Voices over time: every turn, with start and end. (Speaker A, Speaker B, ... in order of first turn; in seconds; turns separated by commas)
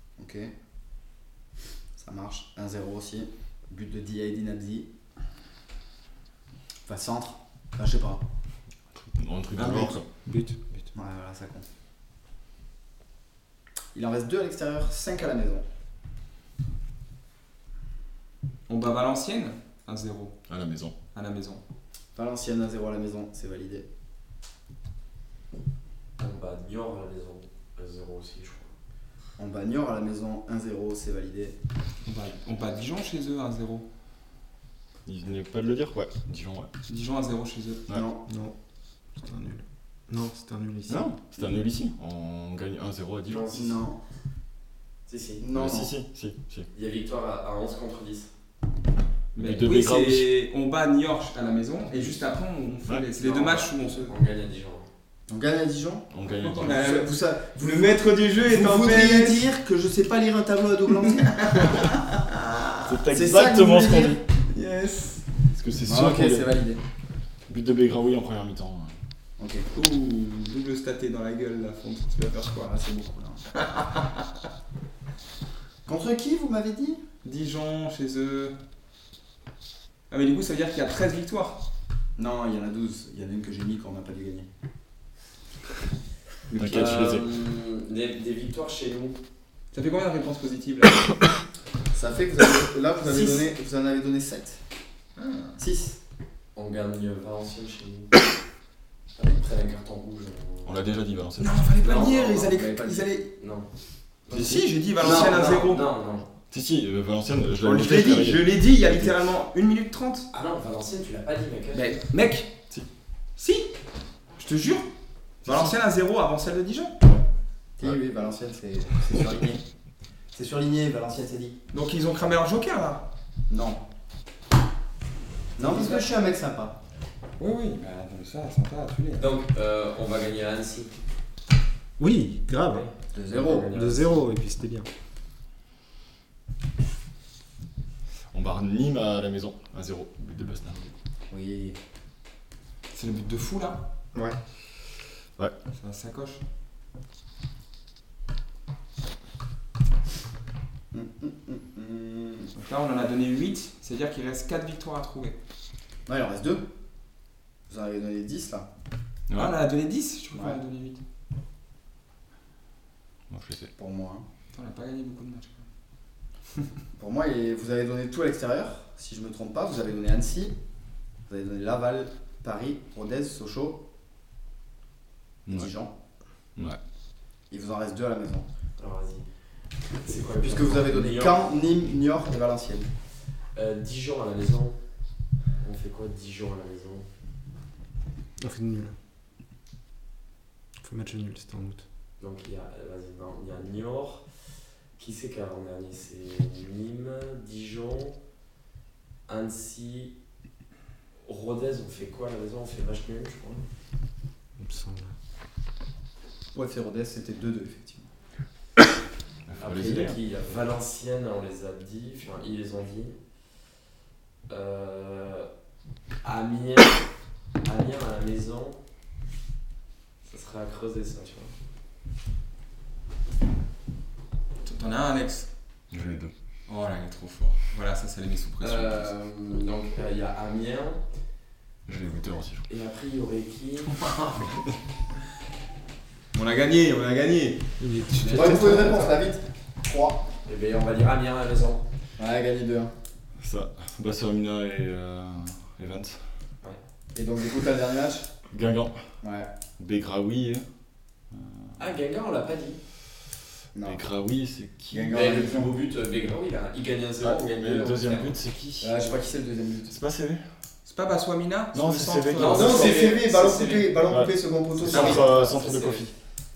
Speaker A: 0.2-0.5, Speaker A: 2.0-4.9, Speaker A: 6.9-8.2, Speaker B: 8.9-10.1, Speaker A: 9.6-9.9, Speaker C: 10.3-10.8, Speaker A: 10.9-11.6, Speaker A: 13.9-15.6, Speaker D: 18.7-20.4, Speaker B: 20.5-20.9, Speaker D: 21.1-21.6, Speaker A: 22.1-23.9, Speaker E: 26.2-28.7, Speaker A: 29.4-31.6, Speaker D: 32.0-33.9, Speaker B: 35.1-36.7, Speaker D: 36.9-37.9, Speaker A: 37.9-38.2, Speaker C: 38.3-38.5, Speaker C: 39.1-41.1, Speaker B: 40.9-43.5, Speaker E: 43.3-43.9, Speaker A: 43.5-44.0, Speaker E: 45.1-45.5, Speaker A: 45.4-45.9, Speaker B: 45.5-46.7, Speaker E: 46.7-48.3, Speaker B: 49.4-50.3, Speaker D: 49.4-54.1, Speaker E: 53.2-54.9, Speaker A: 55.3-56.1, Speaker B: 56.1-56.8, Speaker D: 56.4-59.5, Speaker A: 56.6-61.9, Speaker D: 61.1-62.0, Speaker B: 62.9-64.2, Speaker A: 63.1-64.2, Speaker D: 64.5-65.2, Speaker B: 65.5-66.5, Speaker A: 65.8-66.8, Speaker B: 67.5-68.9, Speaker A: 69.4-69.7, Speaker D: 69.7-72.7, Speaker A: 72.5-73.4, Speaker D: 73.6-74.1, Speaker A: 75.9-77.0, Speaker D: 77.2-78.5, Speaker D: 80.1-81.6, Speaker A: 82.2-84.5, Speaker B: 86.5-87.3, Speaker E: 86.6-89.2, Speaker D: 89.7-91.2, Speaker A: 91.9-94.6, Speaker E: 93.0-93.4, Speaker D: 95.2-95.6, Speaker A: 95.6-96.0, Speaker E: 96.5-98.2, Speaker E: 99.2-100.8, Speaker B: 100.7-101.7, Speaker D: 101.4-103.3, Speaker E: 101.8-103.7, Speaker E: 104.3-106.3, Speaker D: 104.3-105.8, Speaker A: 105.0-105.5, Speaker B: 106.5-109.2, Speaker D: 107.6-110.3, Speaker E: 110.3-111.9, Speaker D: 111.7-112.5, Speaker D: 113.4-113.7, Speaker D: 114.4-114.9, Speaker D: 115.4-117.0, Speaker A: 117.8-119.6, Speaker B: 119.1-119.5, Speaker A: 120.3-121.6, Speaker D: 121.7-123.1, Speaker A: 123.5-123.8, Speaker A: 125.6-126.8, Speaker E: 125.6-126.1, Speaker D: 127.4-129.3, Speaker E: 129.2-131.0, Speaker C: 132.0-132.9, Speaker E: 132.7-134.3, Speaker A: 133.1-133.7, Speaker C: 133.7-134.9, Speaker B: 138.3-140.8, Speaker A: 141.3-141.8, Speaker D: 142.9-143.8, Speaker D: 145.8-146.4, Speaker A: 150.9-152.5, Speaker D: 152.6-155.4, Speaker A: 156.1-156.7, Speaker A: 157.7-158.7, Speaker B: 159.3-159.6, Speaker D: 159.3-161.0, Speaker B: 163.3-163.7, Speaker A: 163.8-164.2, Speaker D: 164.5-165.7, Speaker A: 167.0-170.6, Speaker A: 171.3-173.8, Speaker B: 175.5-175.7, Speaker A: 175.5-175.9, Speaker A: 177.5-178.5, Speaker E: 178.8-179.3, Speaker E: 180.1-181.6, Speaker A: 180.4-182.9, Speaker E: 183.6-184.8, Speaker E: 185.6-187.1, Speaker C: 188.4-188.9, Speaker C: 190.8-191.8, Speaker E: 192.2-194.2, Speaker E: 195.0-198.2, Speaker E: 199.3-200.1, Speaker E: 201.3-203.7, Speaker C: 204.6-205.1, Speaker A: 206.5-208.1, Speaker B: 209.5-210.2, Speaker E: 209.6-213.2, Speaker E: 214.5-215.5, Speaker E: 216.2-217.0, Speaker E: 217.6-218.8, Speaker E: 220.2-221.5, Speaker D: 224.6-225.5, Speaker B: 225.9-226.3, Speaker D: 226.7-229.1, Speaker E: 228.6-231.0, Speaker B: 231.9-232.7, Speaker E: 232.7-233.9, Speaker D: 234.1-234.4, Speaker D: 236.3-237.6, Speaker C: 237.8-239.1, Speaker E: 238.2-239.0, Speaker A: 238.3-240.2, Speaker E: 240.5-241.8, Speaker A: 242.2-242.9, Speaker B: 243.4-246.2, Speaker A: 247.2-248.3, Speaker B: 248.5-249.0, Speaker A: 249.2-249.5, Speaker B: 249.8-250.7, Speaker B: 251.3-251.6, Speaker E: 251.8-252.8, Speaker A: 253.7-254.0, Speaker B: 253.8-255.4, Speaker A: 254.9-255.8, Speaker E: 255.1-258.4, Speaker B: 257.2-259.2, Speaker A: 258.8-260.0, Speaker B: 259.9-260.4, Speaker D: 260.9-263.0, Speaker B: 261.7-262.9, Speaker E: 262.4-263.9, Speaker A: 262.6-265.4, Speaker B: 264.1-266.1, Speaker E: 264.8-266.1